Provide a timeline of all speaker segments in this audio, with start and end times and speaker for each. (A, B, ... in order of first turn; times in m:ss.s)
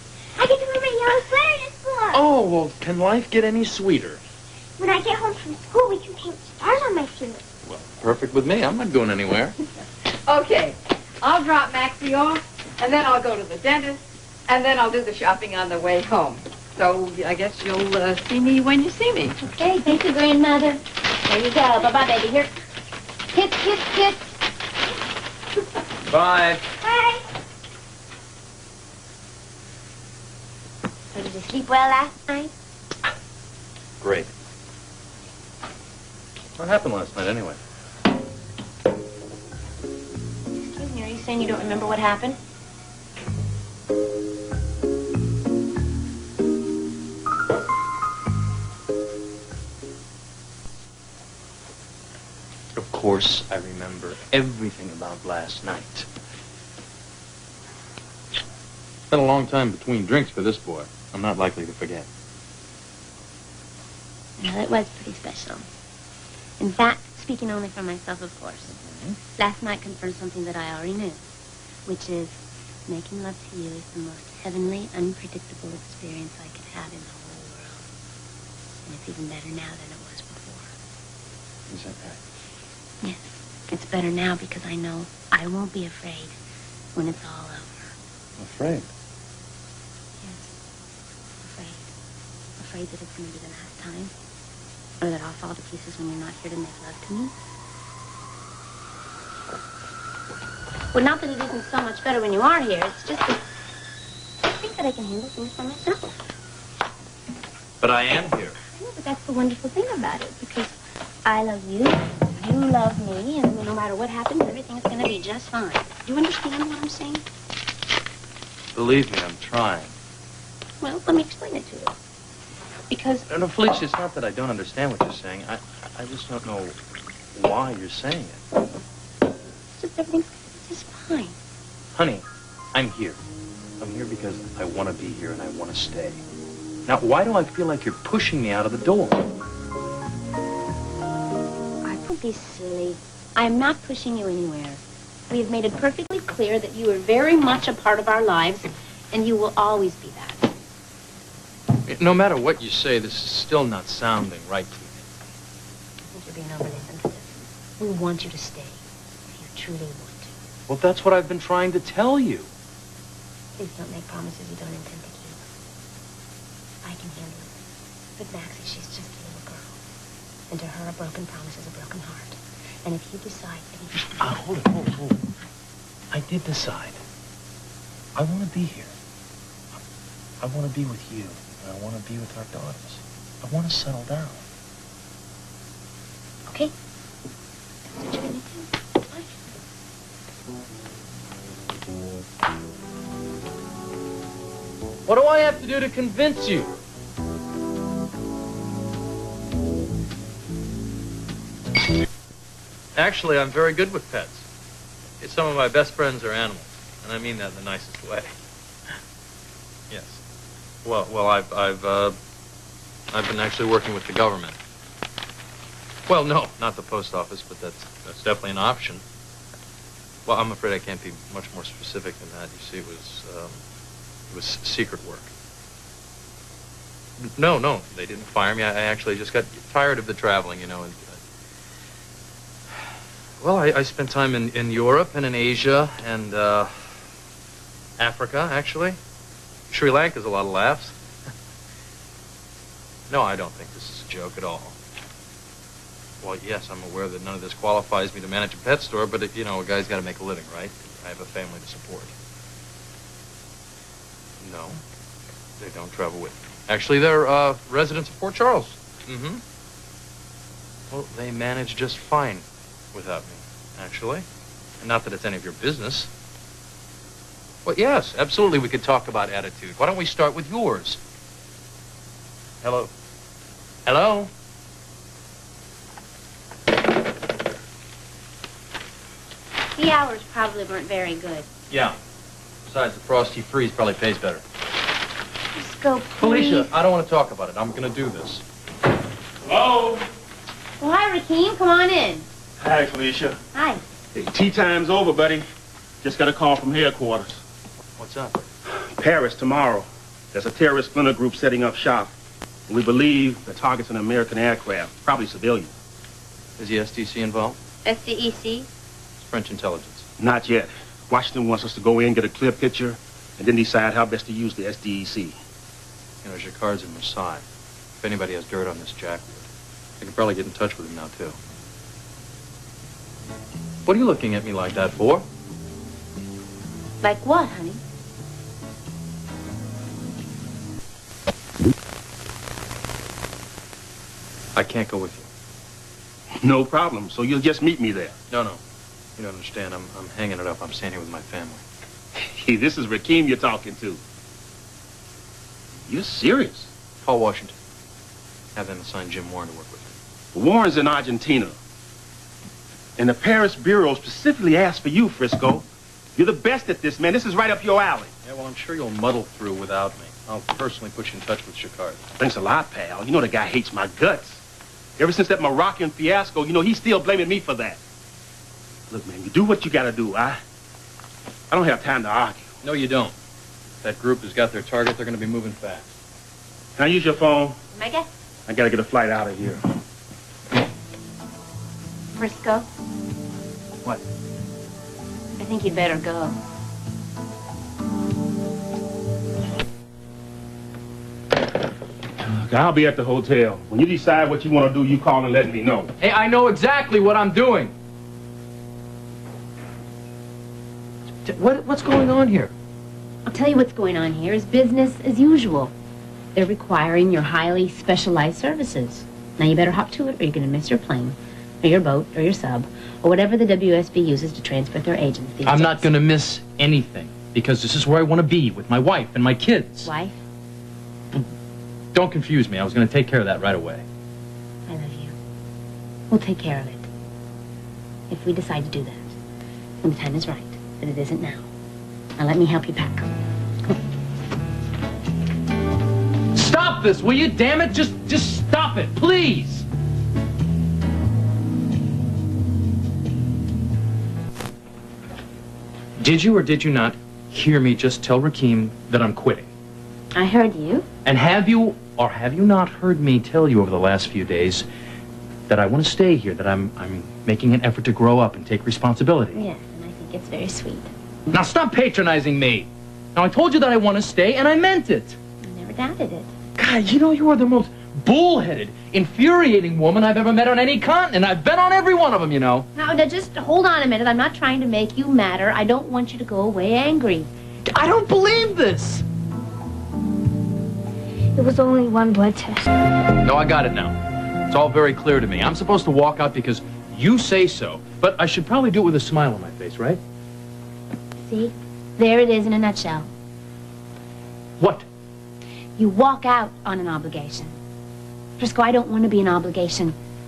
0:00.4-0:02.2 A
0:02.1-0:04.2 B
0:04.8-0:07.4 A
0:07.7-0:09.6 B
0:10.3-0:19.4 C
0:19.4-0:22.5 D
0:23.3-0:24.3 D
0:26.1-0:26.6 B
0:26.9-0:27.2 D
0:31.1-0:32.5 D
0:34.0-0:34.3 B
0:36.6-0:37.6 B
0:40.6-0:42.4 D
0:52.8-0:56.1 B
0:59.1-1:02.1 B
1:04.4-1:05.6 D
1:06.6-1:08.7 D
1:08.8-1:09.2 B
1:09.4-1:11.2 D
1:11.9-1:17.9 D
1:18.8-1:20.7 D
1:21.7-1:22.2 B
1:23.0-1:26.4 D
1:27.0-1:27.9 D
1:28.4-1:28.9 B
1:30.2-1:30.5 D
1:31.4-1:31.8 D
1:32.6-1:34.1 D
1:35.0-1:37.3 D
1:40.9-1:43.4 D
1:44.4-1:46.0 D
1:47.8-1:48.6 B
1:48.8-1:57.2 D
1:58.7-1:59.9 B
2:00.8-2:01.9 D
2:02.9-2:03.3 D
2:03.3-2:06.8 B
2:07.3-2:08.4 B
2:09.8-2:11.4 D
2:12.0-2:13.2 B
2:13.8-2:16.2 B
2:16.9-2:19.3 B
2:21.8-2:30.5 D
2:31.9-2:35.1 B
2:36.1-2:40.3 D
2:40.7-2:42.5 B
2:43.6-2:45.4 D
2:46.8-2:47.6 D
2:48.2-2:49.8 D
2:50.5-2:54.2 D
2:54.2-2:55.2 B
2:56.1-2:57.0 B
2:58.2-2:58.9 B
3:00.4-3:04.4 B
3:07.9-3:09.4 D
3:15.1-3:16.7 B
3:23.0-3:24.5 B
3:25.2-3:28.3 B
3:29.9-3:30.2 B
3:30.8-3:32.2 B
3:33.1-3:34.6 B
3:36.1-3:39.0 B
3:40.3-3:43.6 B
3:44.3-3:45.3 B
3:47.2-3:51.2 B
3:53.4-3:56.9 B
3:58.0-3:59.0 B
3:59.7-4:01.0 B
4:03.1-4:04.8 B
4:06.2-4:12.1 B
4:14.4-4:14.8 B
4:15.6-4:19.4 B
4:20.9-4:24.3 B
4:24.8-4:26.1 B
4:27.6-4:31.0 B
4:32.6-4:32.9 B
4:33.9-4:34.3 B
4:39.8-4:41.5 D
4:41.7-4:42.0 B
4:42.7-4:44.4 B
4:45.6-4:46.7 D
4:46.2-4:48.4 B
4:49.4-4:50.1 E
4:50.8-4:52.3 D
4:52.6-4:53.4 E
4:53.5-4:53.8 D
4:54.1-4:55.5 E
4:56.0-4:57.4 E
4:58.0-4:58.5 B
4:58.7-5:02.1 E
5:02.7-5:05.7 E
5:06.6-5:07.6 B
5:07.8-5:08.7 D
5:09.2-5:10.0 B
5:10.2-5:15.4 E
5:16.2-5:17.4 B
5:18.0-5:19.5 B
5:20.0-5:21.4 B
5:23.9-5:25.2 B
5:27.0-5:27.8 D
5:34.6-5:35.3 B
5:36.4-5:38.2 E
5:38.3-5:38.6 B
5:39.2-5:41.6 B
5:42.2-5:44.0 E
5:45.9-5:46.7 E
5:47.0-5:47.6 B
5:48.6-5:50.0 B
5:50.3-5:51.6 E
5:53.0-5:58.1 E
5:58.2-6:02.0 B
6:02.2-6:04.4 E
6:05.0-6:07.8 E
6:08.9-6:10.4 E
6:11.5-6:12.5 E
6:12.6-6:13.1 B
6:13.8-6:15.9 B
6:16.8-6:17.6 E
6:17.7-6:18.1 D
6:18.5-6:19.6 E
6:22.2-6:22.7 D
6:25.4-6:26.4 D
6:32.2-6:35.9 E
6:36.0-6:37.7 B
6:41.2-6:42.5 B
6:43.3-6:45.7 D
6:46.3-6:55.9 D
6:55.5-6:59.9 B
6:59.8-7:00.2 D
7:01.9-7:03.8 B
7:04.7-7:05.2 D
7:06.1-7:06.9 D
7:08.1-7:09.2 D
7:09.8-7:11.5 D
7:12.2-7:13.1 D
7:16.3-7:19.7 B
7:26.0-7:29.5 B
7:30.1-7:30.9 D
7:31.0-7:34.7 B
7:35.5-7:39.4 B
7:39.3-7:40.9 D
7:41.3-7:45.2 B
7:45.4-7:46.3 D
7:46.6-7:52.7 B
7:52.8-7:57.3 D
7:57.7-7:59.0 B
8:01.4-8:02.6 A
8:03.2-8:04.0 B
8:04.5-8:10.0 B
8:11.2-8:13.1 D
8:14.6-8:14.9 B
8:15.8-8:17.6 D
8:18.4-8:20.0 D